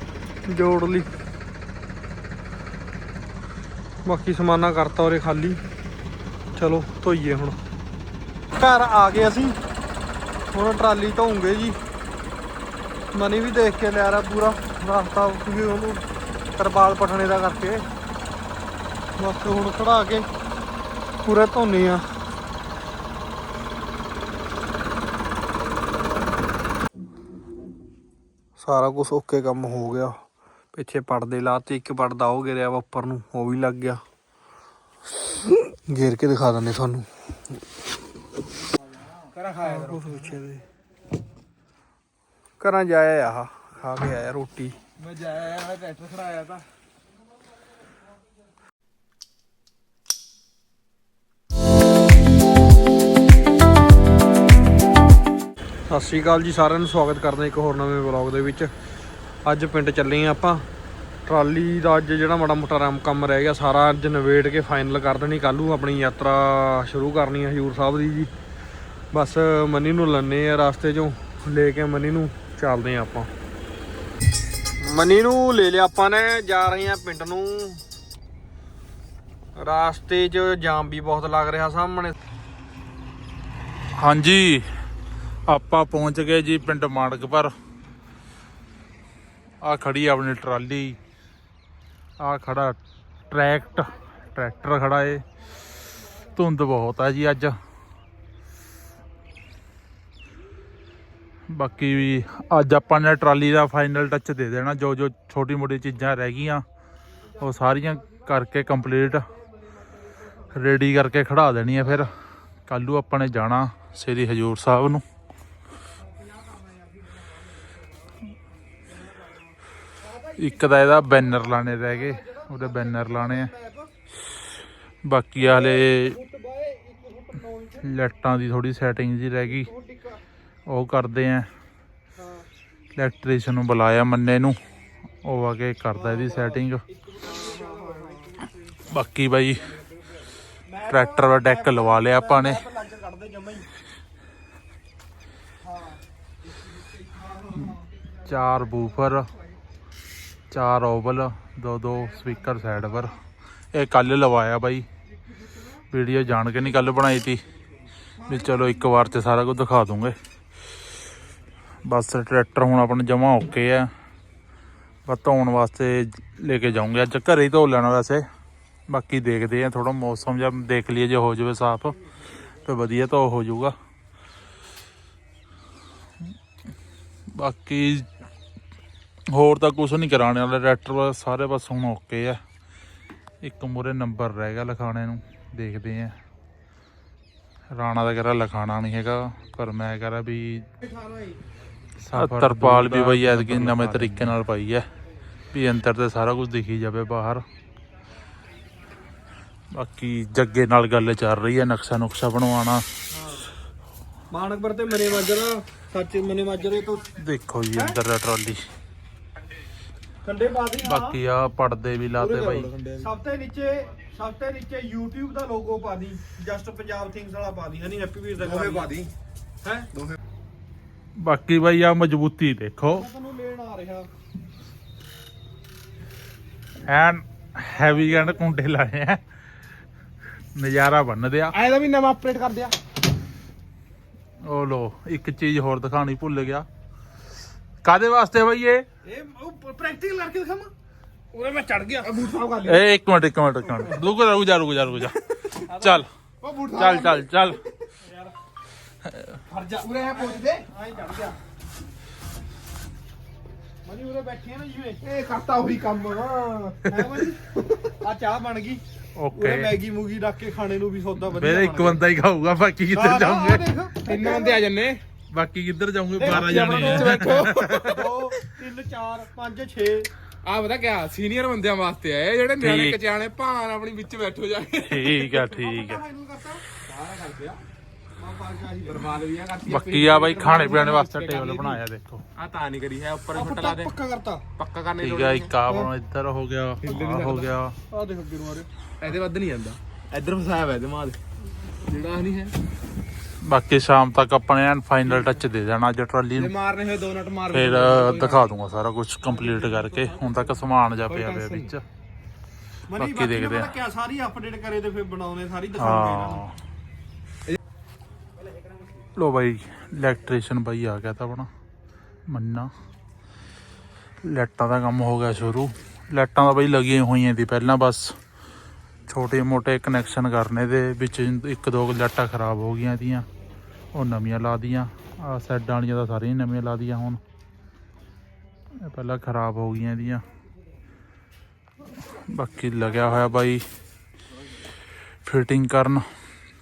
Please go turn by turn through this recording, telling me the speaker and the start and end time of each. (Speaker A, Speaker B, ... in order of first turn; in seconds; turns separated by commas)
Speaker A: 0.5-1.1, Speaker A: 4.0-5.6, Speaker A: 6.5-7.6, Speaker A: 8.6-9.6, Speaker A: 10.5-11.8, Speaker A: 13.1-16.0, Speaker A: 16.6-17.9, Speaker A: 19.2-20.3, Speaker A: 21.2-22.1, Speaker A: 28.6-30.2, Speaker A: 30.7-34.0, Speaker A: 35.4-37.1, Speaker B: 39.4-40.3, Speaker A: 39.6-40.6, Speaker A: 42.6-44.8, Speaker B: 45.0-46.6, Speaker A: 55.9-58.7, Speaker A: 59.5-60.6, Speaker A: 61.3-68.3, Speaker A: 69.1-73.3, Speaker A: 74.8-77.8, Speaker A: 79.6-82.2, Speaker C: 84.0-84.6, Speaker C: 85.5-87.5, Speaker C: 89.6-91.0, Speaker C: 92.2-92.8, Speaker C: 93.3-95.2, Speaker C: 96.4-97.5, Speaker C: 101.5-106.6, Speaker C: 107.4-109.3, Speaker C: 110.4-112.1, Speaker C: 112.7-115.0, Speaker A: 116.6-116.8, Speaker C: 120.3-123.5, Speaker A: 122.0-123.9, Speaker C: 125.0-126.2, Speaker A: 125.4-127.8, Speaker C: 127.8-129.7, Speaker A: 129.6-130.2, Speaker C: 130.7-131.5, Speaker A: 132.2-132.4, Speaker C: 132.9-134.6, Speaker C: 135.2-136.8, Speaker A: 135.9-136.6, Speaker A: 137.1-138.4, Speaker B: 137.3-137.8, Speaker C: 138.9-139.8, Speaker A: 140.7-143.7, Speaker C: 140.9-142.6, Speaker A: 145.7-146.0, Speaker A: 147.3-147.7, Speaker C: 148.2-149.3, Speaker C: 150.5-153.2, Speaker C: 153.7-154.9, Speaker C: 155.9-157.4, Speaker C: 158.2-160.2, Speaker C: 161.8-163.9, Speaker C: 165.1-168.2, Speaker C: 168.9-172.0, Speaker C: 172.6-173.8, Speaker C: 177.3-178.1, Speaker C: 179.3-182.4, Speaker C: 183.4-186.1, Speaker C: 187.7-190.7, Speaker C: 192.1-194.9, Speaker B: 192.8-194.2, Speaker C: 195.5-197.4, Speaker C: 199.7-202.8, Speaker A: 203.1-203.5, Speaker A: 204.3-207.1, Speaker C: 207.2-208.7, Speaker A: 210.2-211.2, Speaker C: 210.8-212.7, Speaker B: 212.2-213.1, Speaker A: 213.0-218.9, Speaker B: 218.5-219.1, Speaker A: 219.6-219.9, Speaker C: 221.2-223.1, Speaker A: 222.9-224.1, Speaker C: 226.9-229.2, Speaker C: 230.6-231.6, Speaker B: 231.5-232.8, Speaker C: 234.4-236.7, Speaker C: 237.8-238.8, Speaker A: 239.1-240.7, Speaker B: 241.3-242.8, Speaker C: 242.6-246.1, Speaker A: 245.7-246.1, Speaker B: 246.4-247.2, Speaker C: 246.7-247.6, Speaker A: 248.0-248.3, Speaker C: 249.1-249.3, Speaker B: 249.5-250.6, Speaker A: 250.1-251.4, Speaker A: 253.8-255.0, Speaker B: 255.1-256.9, Speaker A: 256.8-258.8, Speaker C: 259.2-259.7, Speaker A: 259.3-262.0, Speaker C: 261.3-263.7, Speaker A: 262.9-264.6, Speaker B: 264.1-265.0, Speaker C: 265.3-268.3, Speaker A: 266.2-267.2, Speaker B: 266.3-267.9, Speaker A: 267.9-270.1, Speaker B: 270.5-275.4, Speaker C: 272.6-273.0, Speaker C: 274.8-276.0, Speaker A: 275.5-276.6, Speaker B: 276.9-277.6, Speaker A: 278.2-279.1, Speaker B: 278.9-281.8, Speaker C: 279.6-282.2, Speaker B: 282.4-283.9, Speaker A: 283.3-284.4, Speaker B: 284.6-285.5, Speaker C: 285.0-287.8, Speaker B: 286.9-287.5, Speaker A: 287.9-288.7, Speaker B: 289.0-291.2, Speaker B: 291.9-292.6, Speaker C: 293.5-296.6, Speaker B: 296.4-298.5, Speaker C: 297.5-301.8, Speaker B: 301.1-301.7, Speaker A: 302.9-306.4, Speaker C: 302.9-303.8, Speaker C: 305.8-306.6, Speaker C: 309.2-311.5, Speaker C: 312.3-312.7, Speaker C: 314.2-318.1, Speaker C: 319.1-323.3, Speaker C: 323.9-327.2, Speaker C: 328.8-330.2, Speaker C: 332.0-333.6, Speaker C: 335.2-336.0